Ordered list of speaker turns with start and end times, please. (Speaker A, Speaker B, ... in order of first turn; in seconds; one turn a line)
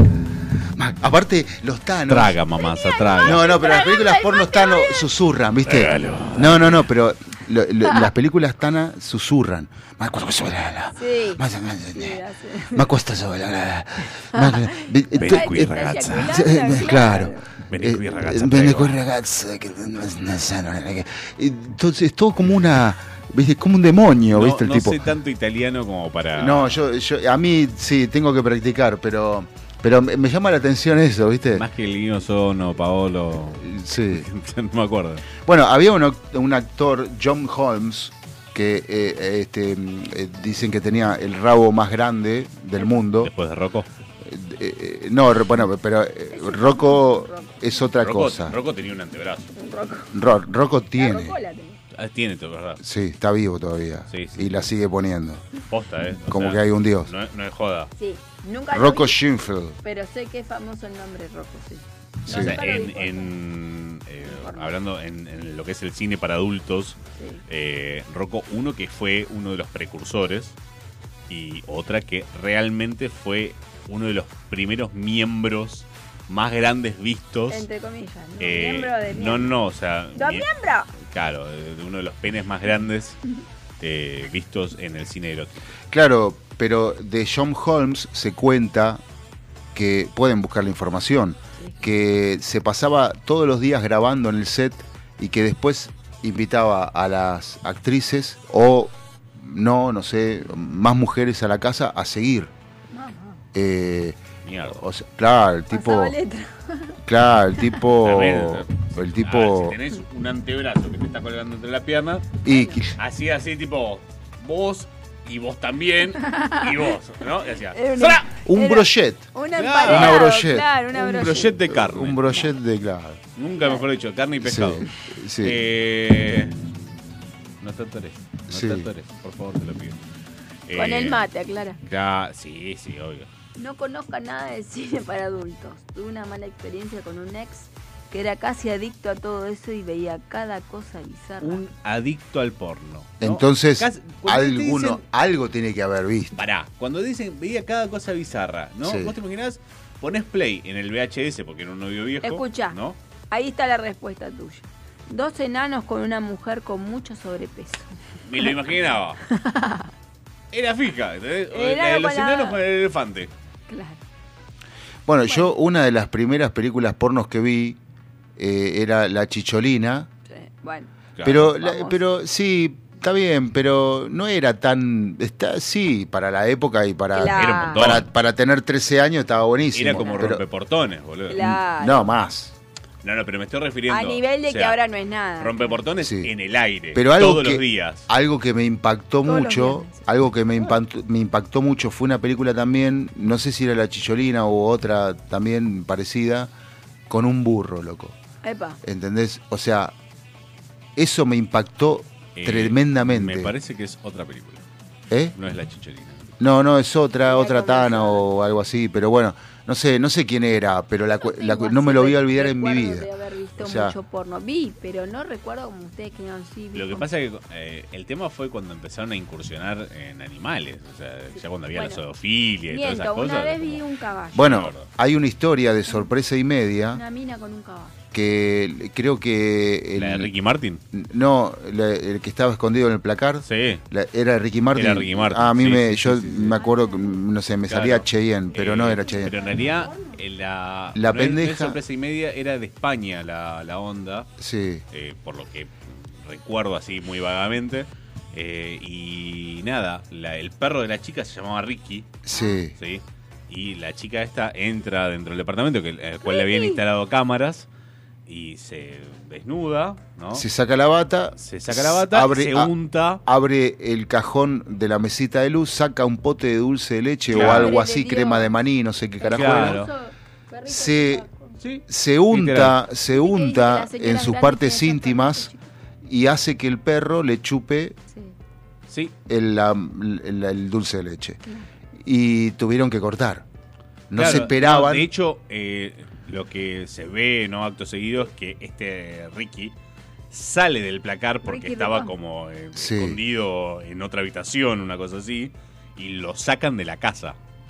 Speaker A: 0.7-2.4
Speaker B: 2.1-3.5
Speaker C: 2.6-5.1
Speaker A: 3.2-12.2
Speaker B: 5.7-6.8
Speaker C: 11.0-12.9
Speaker A: 12.7-25.0
Speaker C: 14.3-17.4
Speaker B: 15.2-16.4
Speaker B: 17.7-19.0
Speaker B: 24.3-26.8
Speaker A: 26.4-31.6
Speaker B: 31.6-35.3
Speaker A: 33.6-34.3
Speaker A: 35.4-43.3
Speaker B: 43.2-43.9
Speaker A: 44.2-48.6
Speaker C: 46.3-47.6
Speaker B: 48.0-49.5
Speaker C: 49.6-50.1
Speaker A: 50.1-51.4
Speaker C: 51.0-51.8
Speaker B: 51.9-52.8
Speaker A: 52.8-55.4
Speaker B: 54.1-54.6
Speaker B: 55.7-57.9
Speaker A: 56.3-57.1
Speaker C: 58.0-59.2
Speaker A: 58.7-59.8
Speaker C: 59.8-63.3
Speaker A: 62.3-62.6
Speaker B: 62.3-70.6
Speaker C: 64.3-64.7
Speaker B: 71.3-77.7
Speaker C: 77.5-79.5
Speaker B: 78.4-83.2
Speaker C: 80.2-80.9
Speaker B: 83.8-85.5
Speaker A: 85.9-89.0
Speaker A: 89.7-102.5
Speaker C: 102.9-103.4
Speaker A: 103.5-104.2
Speaker B: 104.5-104.8
Speaker A: 104.7-106.2
Speaker C: 105.7-107.0
Speaker A: 107.0-109.8
Speaker B: 108.0-112.3
Speaker A: 112.4-113.0
Speaker C: 112.5-112.8
Speaker B: 113.0-117.8
Speaker C: 117.7-121.6
Speaker A: 118.0-119.3
Speaker B: 119.6-120.3
Speaker A: 119.8-120.7
Speaker B: 120.9-122.5
Speaker A: 121.6-123.2
Speaker B: 123.4-124.9
Speaker C: 123.6-123.8
Speaker A: 124.4-125.6
Speaker B: 125.4-126.5
Speaker B: 127.6-130.0
Speaker A: 128.5-128.9
Speaker B: 130.7-131.2
Speaker C: 130.7-131.8
Speaker B: 131.9-133.3
Speaker C: 133.6-141.6
Speaker B: 141.4-145.0
Speaker A: 143.2-146.4
Speaker B: 146.4-153.0
Speaker A: 148.8-149.2
Speaker C: 152.2-152.8
Speaker C: 153.3-157.9
Speaker B: 158.3-159.2
Speaker C: 159.3-159.9
Speaker B: 160.5-163.3
Speaker C: 161.5-162.6
Speaker C: 163.7-164.0
Speaker A: 165.1-167.8
Speaker C: 165.3-165.5
Speaker A: 168.4-170.1
Speaker C: 170.3-170.9
Speaker B: 171.2-171.5
Speaker A: 171.2-180.4
Speaker C: 171.5-172.0
Speaker C: 177.1-177.8
Speaker B: 177.3-178.1
Speaker B: 179.7-181.5
Speaker C: 180.0-180.3
Speaker C: 181.3-182.1
Speaker A: 181.3-182.6
Speaker B: 183.0-184.8
Speaker C: 183.9-185.8
Speaker B: 185.4-188.1
Speaker A: 186.0-186.3
Speaker A: 186.9-196.5
Speaker C: 189.2-190.1
Speaker A: 197.1-198.2
Speaker C: 198.4-198.8
Speaker A: 198.8-199.9
Speaker A: 201.0-203.5
Speaker B: 202.4-204.7
Speaker A: 205.1-205.4
Speaker B: 205.4-206.3
Speaker A: 206.4-214.0
Speaker C: 207.2-208.3
Speaker C: 211.2-217.1
Speaker B: 216.7-223.8
Speaker C: 221.3-222.0
Speaker C: 222.7-224.7
Speaker A: 224.3-227.0
Speaker B: 224.4-224.9
Speaker C: 226.9-227.9
Speaker A: 228.1-230.3
Speaker B: 230.0-230.8
Speaker A: 230.9-239.4
Speaker B: 233.5-233.8
Speaker B: 234.8-236.6
Speaker C: 236.6-237.2
Speaker B: 237.7-244.3
Speaker C: 239.0-240.2
Speaker A: 240.9-241.8
Speaker A: 244.4-244.8
Speaker B: 244.9-252.2
Speaker A: 252.2-252.8
Speaker C: 252.3-252.6
Speaker B: 252.8-257.7
Speaker C: 256.2-256.8
Speaker B: 258.3-260.4
Speaker A: 260.3-262.7
Speaker B: 261.4-263.2
Speaker A: 263.2-269.9
Speaker B: 267.3-267.8
Speaker C: 267.3-268.6
Speaker C: 269.2-271.6
Speaker B: 269.3-269.9
Speaker A: 270.7-271.2
Speaker B: 271.6-272.8
Speaker A: 271.9-275.5
Speaker C: 273.1-275.6
Speaker A: 276.1-278.0
Speaker B: 278.9-279.1
Speaker A: 279.3-281.4
Speaker A: 282.0-283.4
Speaker A: 284.1-285.1
Speaker B: 284.1-289.8
Speaker B: 290.3-297.4
Speaker C: 291.4-292.1
Speaker A: 292.8-293.2